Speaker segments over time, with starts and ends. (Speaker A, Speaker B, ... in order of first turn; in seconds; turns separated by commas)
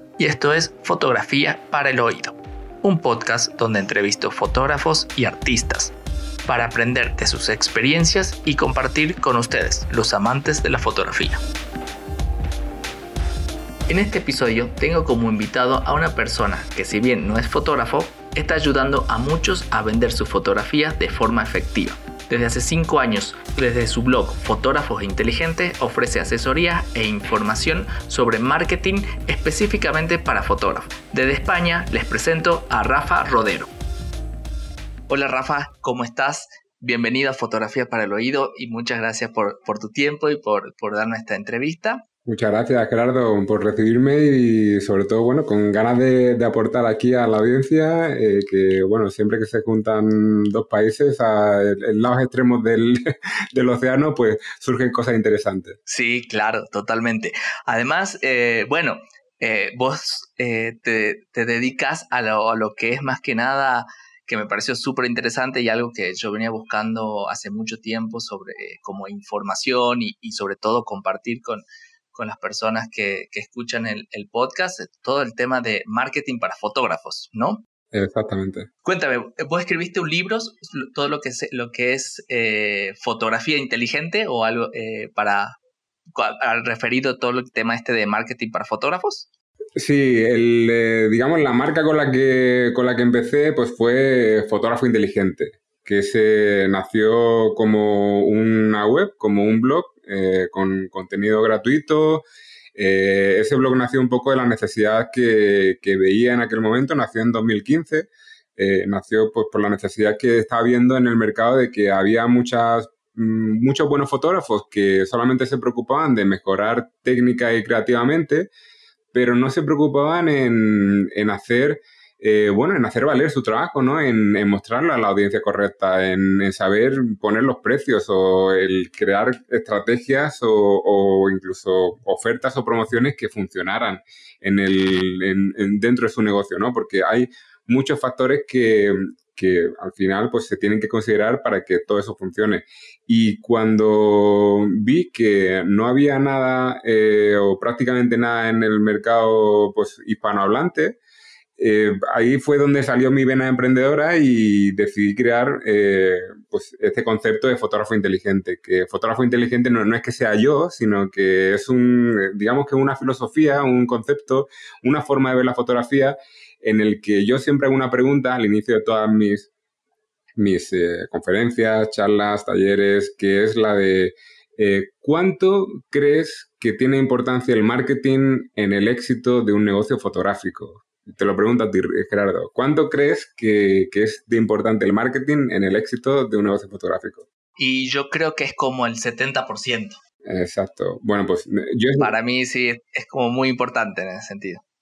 Speaker A: 0.2-5.9, Speaker A: 6.5-11.4, Speaker A: 13.9-33.7, Speaker A: 35.1-42.0, Speaker B: 42.2-55.8, Speaker A: 55.9-77.6, Speaker B: 77.9-78.7, Speaker A: 78.8-85.6, Speaker A: 86.2-89.3, Speaker B: 89.8-118.5, Speaker B: 119.1-151.0, Speaker B: 151.6-169.5, Speaker B: 170.4-187.2, Speaker A: 187.6-190.0, Speaker B: 190.2-192.1, Speaker A: 192.0-194.6